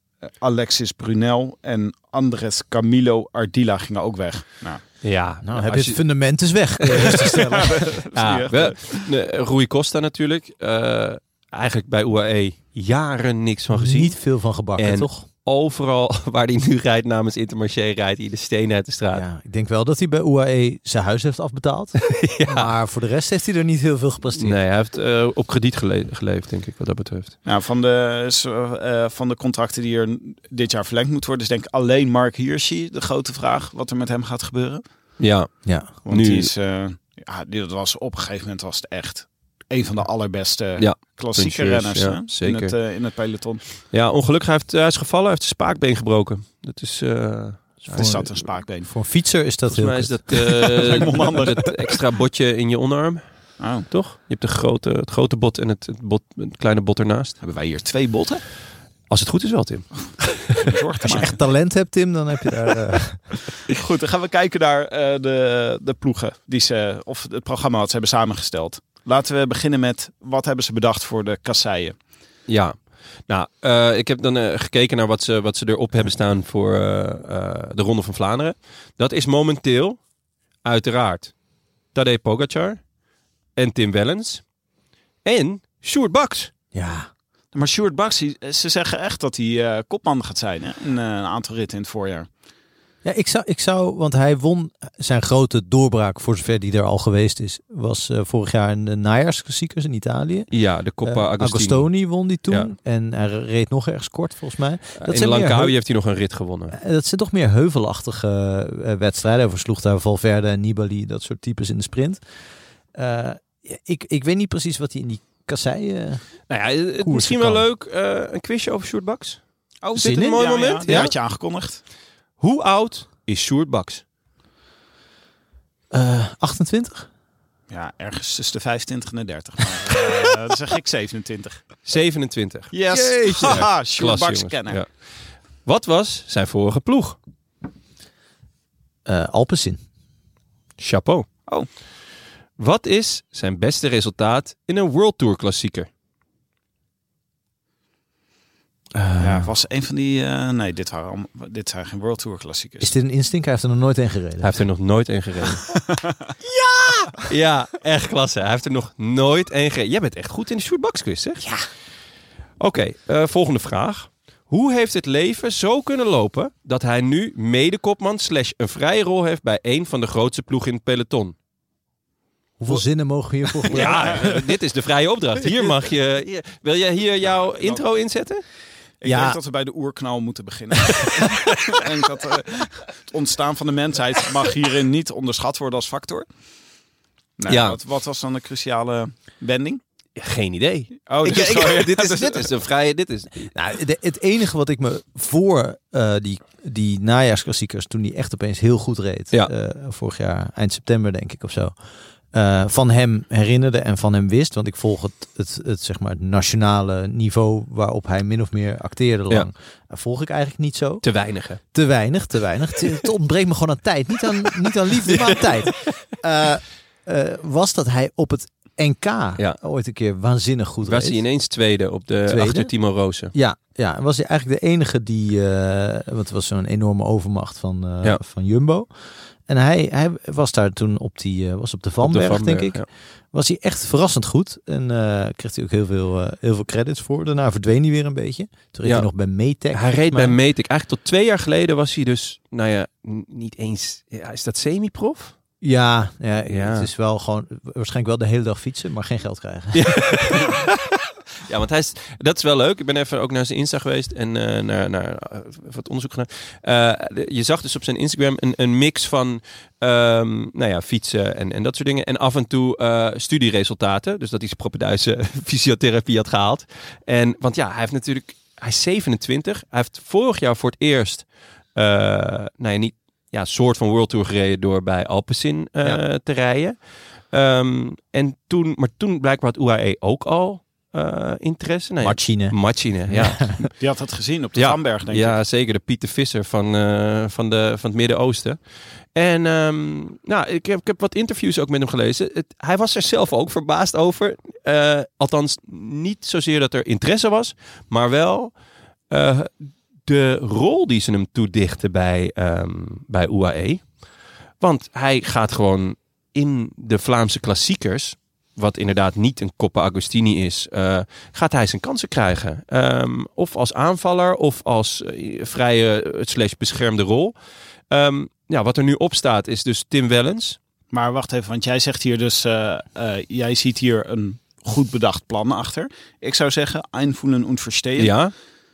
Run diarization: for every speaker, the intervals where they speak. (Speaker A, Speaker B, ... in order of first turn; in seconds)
Speaker A: 0.4-4.8, 7.3-9.1, 27.4-34.8, 36.0-43.6, 47.9-48.9, 50.7-51.7, 53.6-53.9, 57.4-58.4, 60.6-61.4, 63.7-72.0, 87.5-92.3, 119.8-121.8, 127.7-131.6, 132.7-134.8, 149.2-152.9, 155.9-156.1, 173.7-174.3, 177.2-177.8, 179.0-186.2, 187.4-189.8, 191.1-192.5, 283.8-285.4, 320.9-328.2
Speaker B: 5.0-7.3, 8.1-19.2, 22.0-22.7, 24.3-27.4, 35.2-36.5, 40.8-42.7, 43.9-48.3, 49.7-57.4, 59.1-60.5, 72.5-80.0, 80.6-81.3, 81.9-82.8, 83.5-84.4, 85.2-86.5, 100.5-101.9, 105.0-106.8, 116.5-119.4, 119.9-121.1, 122.4-124.0, 131.8-132.7, 133.4-134.9, 135.6-137.2, 140.8-141.3, 142.6-145.9, 154.4-155.7, 157.2-161.5, 162.6-171.3, 173.6-178.4, 187.5-187.8, 190.2-193.5, 211.0-211.6, 215.1-215.4, 220.8-223.3, 232.0-232.8, 239.7-245.3, 246.5-246.9, 249.7-276.8, 277.3-283.6, 284.6-288.6, 289.1-298.5, 299.1-303.8, 304.6-317.3, 317.9-320.6, 328.0-328.3
Speaker C: 5.4-7.9, 13.7-15.2, 19.1-24.6, 47.9-50.5, 61.0-63.3, 86.7-87.1, 93.0-100.5, 101.0-105.7, 106.7-112.2, 112.9-116.2, 117.0-117.6, 120.0-121.1, 125.9-127.1, 132.9-133.7, 139.1-139.8, 148.9-149.5, 152.8-154.6, 156.5-157.2, 172.6-174.5, 179.0-179.4, 193.5-201.8, 202.3-211.0, 211.7-221.2, 222.3-222.7, 223.3-228.9, 229.5-240.4, 245.6-250.4, 282.0-282.6, 283.1-283.7